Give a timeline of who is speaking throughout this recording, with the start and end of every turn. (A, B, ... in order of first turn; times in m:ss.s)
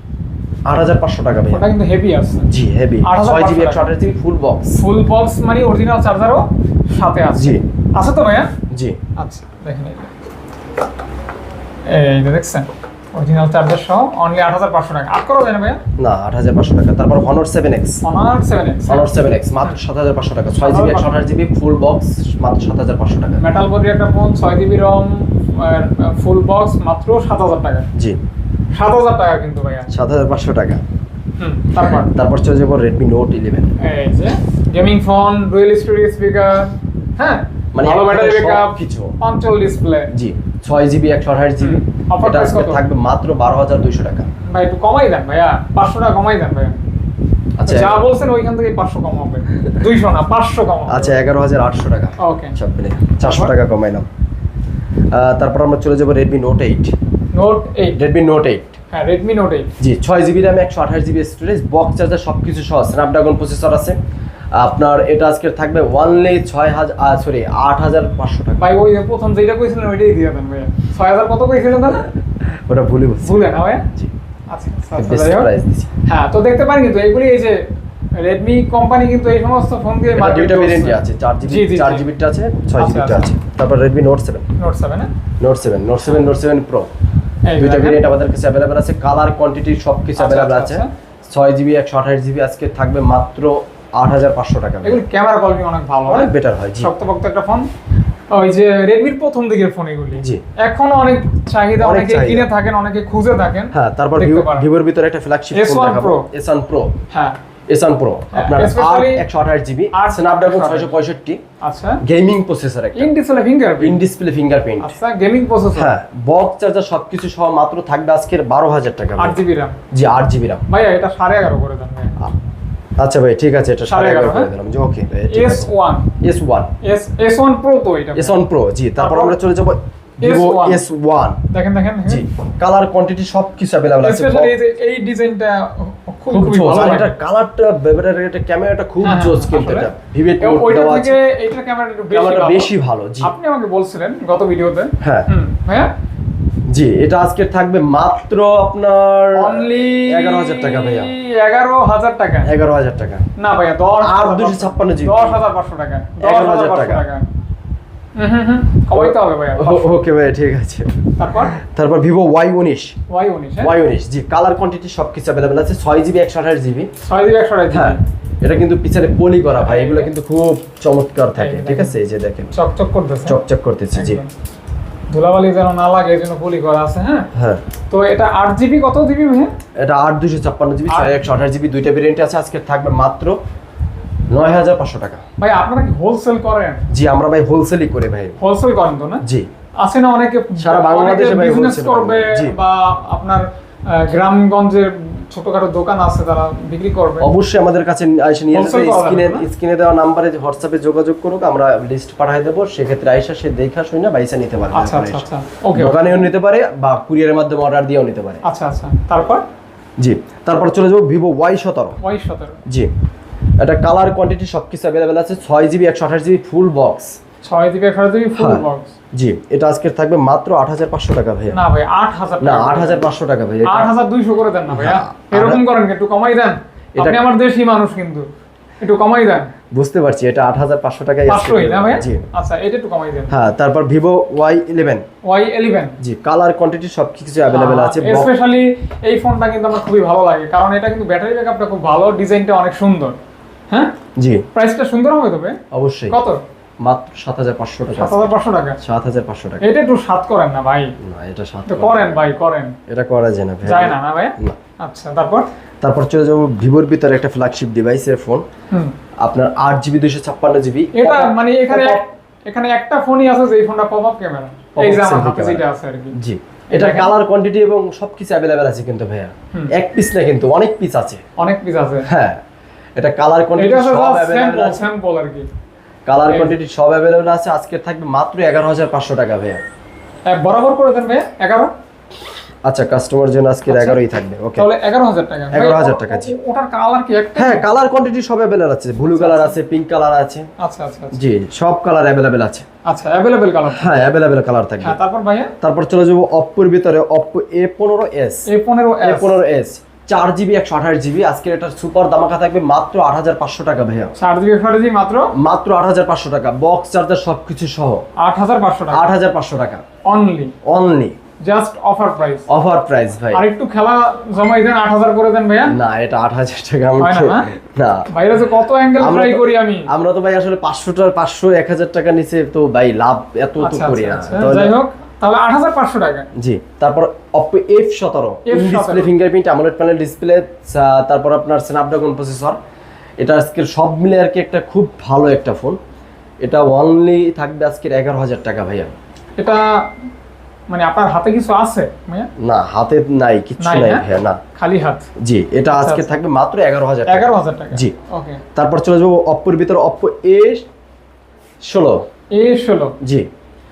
0:00.7-0:01.7 A
0:01.5-0:02.5 B
0:02.4-0:04.8 A
0:03.0-0:03.9 B
0:04.8-0:08.5 B
0:07.3-0:07.6 A
0:08.7-0:09.0 A
0:09.2-0:10.1 B
0:11.8-0:15.8 B
0:16.0-0:18.0 A
0:18.0-0:19.8 B
0:18.9-0:23.4 A
0:20.5-0:21.1 B
0:23.4-0:27.9 B
0:28.7-0:29.9 B
0:29.9-0:30.8 A
0:31.4-0:32.1 B
0:31.8-0:33.7 A
0:33.8-0:40.1 B
0:37.7-0:39.2 A
0:40.1-0:44.3 A
0:41.6-0:42.8 B
0:44.5-0:46.8 B
0:47.6-0:48.0 A
0:47.6-0:51.2 B
0:50.9-0:54.1 A
0:52.2-0:52.6 B
0:53.2-0:53.5 B
0:55.1-0:56.9 A
0:57.3-0:58.0 B
0:57.9-0:58.8 A
0:58.9-0:59.7 B
0:59.8-1:04.0 A
1:04.5-1:08.6 A
1:08.6-1:12.0 B
1:12.5-1:14.1 A
1:13.2-1:13.8 B
1:14.5-1:15.5 B
1:15.0-1:15.9 A
1:16.0-1:17.6 B
1:18.2-1:22.0 B
1:20.1-1:24.4 A
1:22.8-1:23.3 B
1:24.6-1:25.1 B
1:25.4-1:26.9 A
1:27.4-1:28.0 B
1:27.6-1:35.0 A
1:30.2-1:30.9 B
1:34.8-1:37.7 B
1:36.1-1:36.9 A
1:38.3-1:44.7 B
1:40.2-1:40.4 A
1:41.8-1:42.5 A
1:43.7-1:46.9 A
1:45.5-1:46.3 B
1:47.1-1:47.4 B
1:47.7-1:51.4 A
1:48.3-1:49.2 B
1:49.9-1:50.9 B
1:51.6-1:52.0 B
1:52.0-1:53.1 A
1:53.0-1:54.0 B
1:53.8-1:54.9 A
1:54.8-1:55.9 B
1:55.8-1:59.4 A
1:59.2-1:59.8 B
1:59.9-2:00.6 A
2:00.7-2:02.1 B
2:03.0-2:05.7 A
2:03.9-2:04.5 B
2:05.3-2:06.1 B
2:06.2-2:06.7 A
2:06.8-2:08.4 B
2:08.1-2:11.4 A
2:09.0-2:09.4 B
2:10.2-2:10.8 B
2:11.5-2:12.2 B
2:12.0-2:14.5 A
2:14.0-2:17.1 B
2:16.3-2:21.2 A
2:19.0-2:22.7 B
2:22.1-2:23.3 A
2:23.2-2:25.9 B
2:25.0-2:25.3 A
2:26.7-2:31.1 A
2:29.4-2:32.5 B
2:32.4-2:33.2 A
2:33.4-2:37.3 B
2:34.0-2:35.4 A
2:36.2-2:37.0 A
2:38.2-2:40.0 B
2:39.0-2:40.9 A
2:41.2-2:41.5 B
2:41.5-2:43.0 A
2:43.1-2:43.7 B
2:43.6-2:46.9 A
2:47.0-2:48.0 B
2:47.7-2:52.5 A
2:49.6-2:50.1 B
2:51.4-2:52.0 B
2:52.5-2:53.4 B
2:53.2-2:54.2 A
2:53.9-2:54.3 B
2:55.1-2:57.3 B
2:57.3-2:57.6 A
2:57.9-2:59.5 B
2:59.8-3:03.4 A
3:00.9-3:01.2 B
3:04.3-3:05.2 A
3:05.4-3:06.8 B
3:06.9-3:08.4 A
3:08.4-3:09.2 B
3:09.2-3:09.5 A
3:09.8-3:17.3 B
3:10.6-3:12.6 A
3:17.2-3:28.4 A
3:18.5-3:19.4 B
3:24.7-3:26.3 B
3:28.4-3:29.4 B
3:30.0-3:32.0 A
3:32.0-3:32.6 B
3:33.6-3:37.2 A
3:37.4-3:38.9 B
3:38.4-3:41.6 A
3:41.5-3:43.0 B
3:42.4-3:43.9 A
3:43.6-3:48.2 B
3:44.7-3:45.6 A
3:47.0-3:47.2 A
3:48.8-3:49.5 B
3:49.7-3:52.2 A
3:51.3-3:53.3 B
3:53.3-3:55.0 A
3:55.2-3:56.0 B
3:56.0-3:58.3 A
3:57.5-4:03.2 B
4:04.2-4:04.4 A
4:04.5-4:05.6 B
4:05.7-4:06.2 A
4:06.1-4:06.4 B
4:06.8-4:09.6 A
4:07.9-4:08.8 B
4:09.6-4:10.9 B
4:11.0-4:12.3 A
4:11.7-4:12.8 B
4:12.9-4:14.6 A
4:13.6-4:15.5 B
4:15.8-4:18.4 A
4:19.2-4:22.0 A
4:20.9-4:26.1 B
4:24.7-4:25.6 A
4:26.1-4:31.2 A
4:26.7-4:27.1 B
4:31.4-4:32.1 B
4:32.0-4:32.4 A
4:33.0-4:34.8 A
4:33.6-4:35.5 B
4:36.0-4:39.6 A
4:36.3-4:36.6 B
4:40.3-4:41.7 B
4:42.6-4:44.7 A
4:43.7-4:44.0 B
4:44.6-4:47.7 B
4:45.5-4:46.3 A
4:47.4-4:50.5 A
4:49.1-4:49.6 B
4:50.6-4:51.2 B
4:51.1-4:52.6 A
4:52.8-4:54.0 B
4:53.7-4:55.0 A
4:54.8-4:55.5 B
4:55.6-4:58.5 A
4:58.5-4:59.4 B
4:59.0-5:04.1 A
5:04.2-5:05.3 B
5:05.3-5:08.0 A
5:08.2-5:09.0 B
5:08.9-5:09.8 A
5:10.0-5:10.5 B
5:10.6-5:11.2 A
5:11.4-5:12.5 B
5:12.5-5:13.4 A
5:13.3-5:15.8 B
5:15.7-5:18.1 A
5:17.0-5:17.5 B
5:18.1-5:19.9 B
5:19.0-5:24.7 A
5:23.6-5:26.3 B
5:26.4-5:32.6 A
5:28.4-5:29.1 B
5:33.2-5:35.8 A
5:36.4-5:38.9 A
5:39.4-5:39.8 B
5:40.7-5:42.3 B
5:42.4-5:44.4 A
5:43.6-5:45.1 B
5:45.2-5:47.9 A
5:45.7-5:46.1 B
5:47.0-5:48.4 B
5:48.5-5:50.6 A
5:51.6-5:52.0 A
5:52.3-5:53.0 B
5:53.0-5:53.3 A